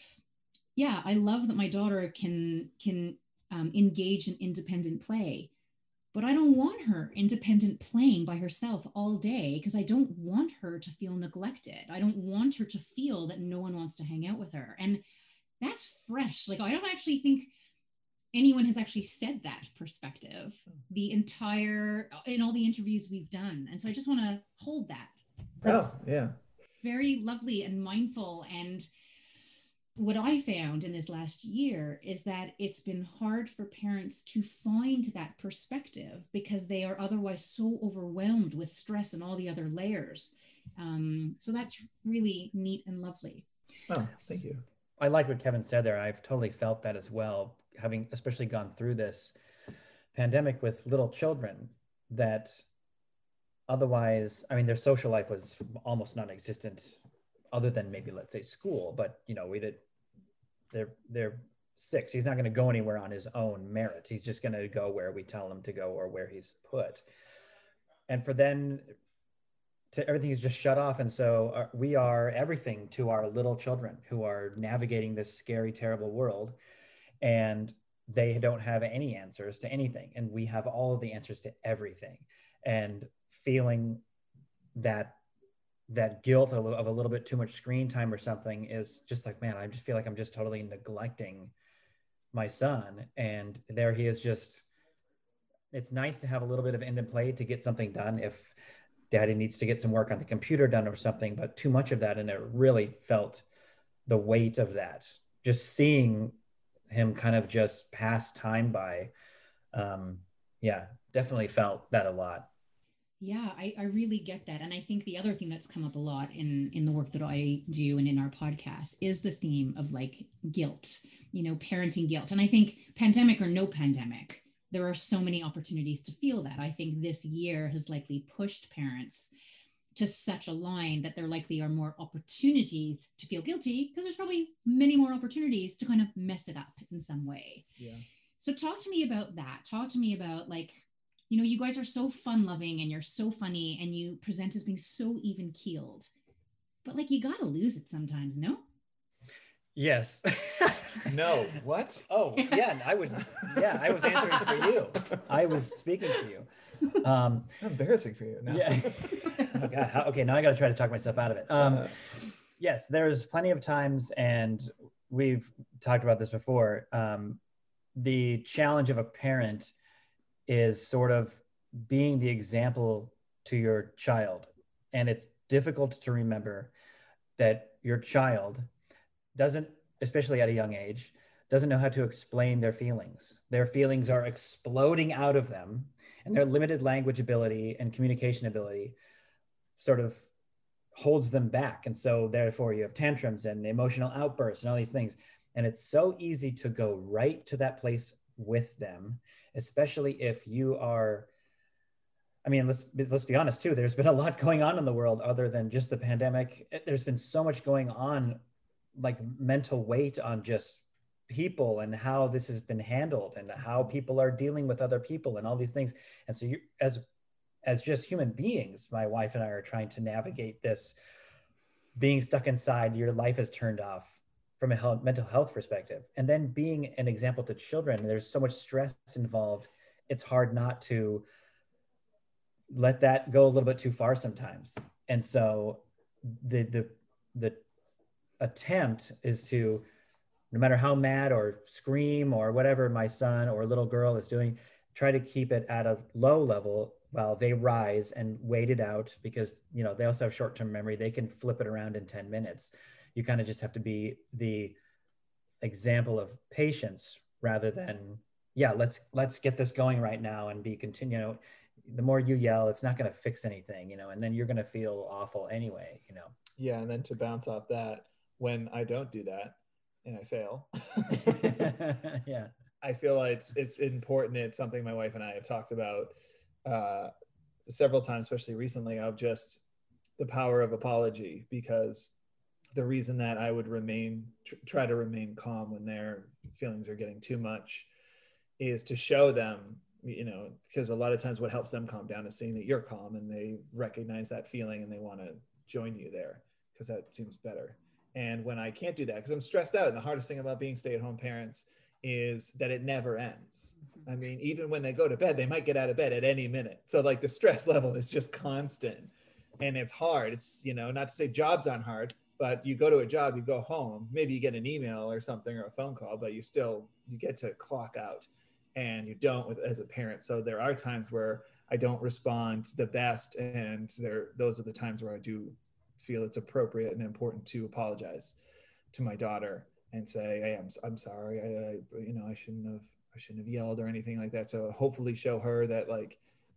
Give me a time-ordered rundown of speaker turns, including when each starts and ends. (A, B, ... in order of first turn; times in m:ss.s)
0:00.8-0:05.5 A
0:06.1-0:15.0 A
0:15.6-0:17.5 A
0:18.3-0:26.0 A
0:25.6-0:26.3 B
0:26.8-0:28.9 A
0:30.0-0:43.4 A
0:43.9-0:44.6 B
0:45.0-0:49.3 C
0:50.1-0:52.6 C
0:53.7-0:57.0 C
0:57.5-0:59.8 C
1:00.7-1:07.0 C
1:08.1-1:08.9 C
1:09.9-1:16.6 C
1:17.2-1:24.0 C
1:24.7-1:25.2 C
1:25.9-1:31.5 C
1:32.3-1:34.6 C
1:35.7-1:38.5 C
1:39.1-1:43.4 C
1:44.1-1:46.4 C
1:46.9-1:49.1 C
1:49.7-1:52.5 C
1:53.2-2:09.3 A
2:09.9-2:17.6 A
2:17.8-2:18.0 B
2:18.4-2:26.1 A
2:26.8-2:28.6 A
2:29.7-2:31.1 C
2:31.0-2:32.0 B
2:32.1-2:37.6 C
2:37.6-2:39.6 B
2:38.5-2:41.9 C
2:41.6-2:41.9 B
2:42.6-2:47.4 C
2:48.0-2:49.7 C
2:50.5-2:56.7 C
2:57.4-2:58.7 C
2:59.3-3:09.0 C
3:09.8-3:10.3 C
3:10.9-3:21.3 C
3:22.4-3:28.4 C
3:28.9-3:37.0 C
3:37.6-3:41.0 C
3:42.0-3:51.2 C
3:52.7-3:57.6 C
3:58.4-3:59.8 C
4:00.5-4:14.8 C
4:15.6-4:26.4 C
4:26.6-4:31.7 B
4:31.1-4:32.5 C
4:32.8-4:37.1 B
4:37.7-4:39.6 B
4:40.2-4:42.1 B
4:42.7-4:47.9 B
4:48.6-5:28.4 B
5:28.9-5:36.2 B